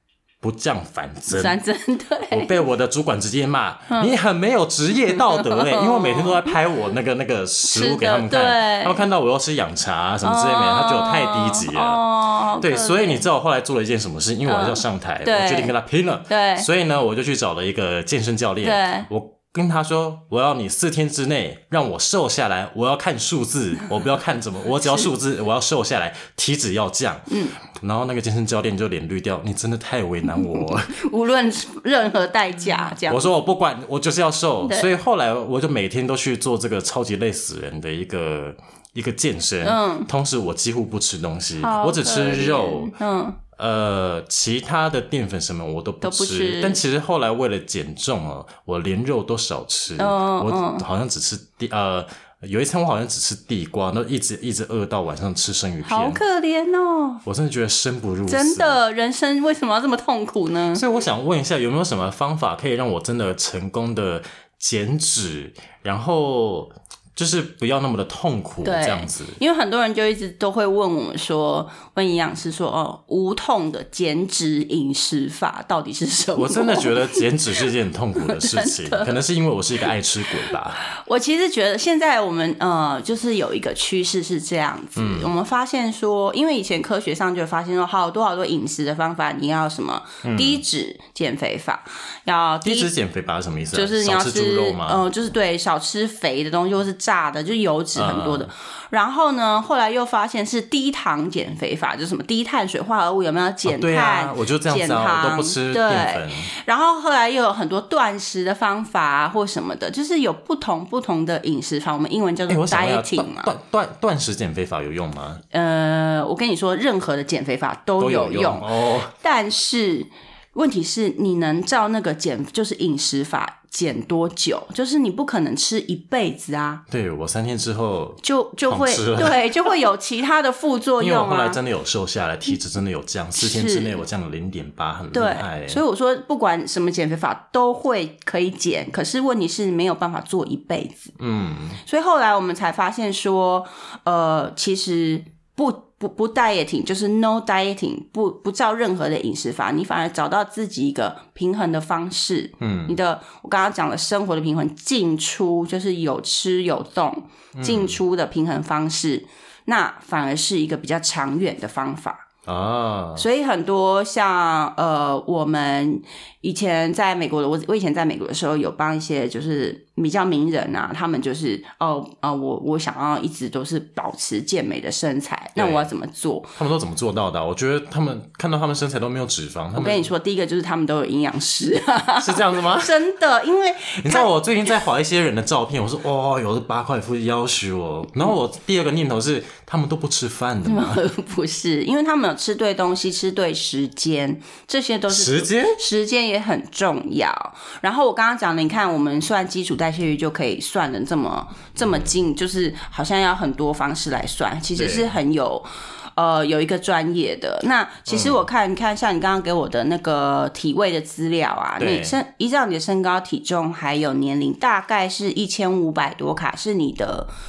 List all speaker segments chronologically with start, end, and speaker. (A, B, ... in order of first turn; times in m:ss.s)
0:00.4-0:01.6 A
0:01.3-0:02.6 B
0:02.3-0:12.0 A
0:05.1-0:06.6 B
0:07.6-0:09.0 B
0:10.2-0:13.2 B
0:12.6-0:30.9 A
0:14.4-0:15.7 B
0:16.3-0:16.7 B
0:18.6-0:19.1 B
0:27.3-0:27.6 B
0:30.4-0:33.3 B
0:33.0-0:42.9 A
0:39.6-0:40.1 B
0:41.6-0:43.4 B
0:43.5-0:56.2 A
0:46.0-0:46.8 B
0:50.0-0:50.8 B
0:55.8-0:57.2 B
0:57.2-0:58.8 A
0:58.3-1:00.8 B
1:00.7-1:09.4 A
1:08.6-1:17.3 B
1:16.3-1:20.8 A
1:18.2-1:19.2 B
1:20.8-1:32.9 B
1:25.0-1:25.3 A
1:30.2-1:30.6 A
1:32.6-1:35.0 A
1:33.7-1:53.5 B
1:37.9-1:38.5 A
1:43.6-1:46.5 A
1:52.5-1:55.4 A
1:55.5-2:06.8 B
1:58.0-1:59.1 A
2:06.9-2:09.7 A
2:08.2-2:11.6 B
2:11.0-2:15.8 A
2:13.4-2:14.0 B
2:15.1-2:21.1 B
2:21.2-2:21.8 A
2:21.8-2:42.2 B
2:32.6-2:33.0 A
2:37.5-2:38.0 A
2:42.4-2:43.2 A
2:43.2-2:56.5 B
2:55.6-2:55.9 A
2:56.6-3:00.1 A
2:59.7-3:04.3 B
3:02.2-3:02.9 A
3:04.0-3:11.0 A
3:10.6-3:37.3 B
3:15.1-3:15.8 A
3:21.8-3:22.1 A
3:24.8-3:25.1 A
3:28.1-3:28.4 A
3:31.8-3:32.2 A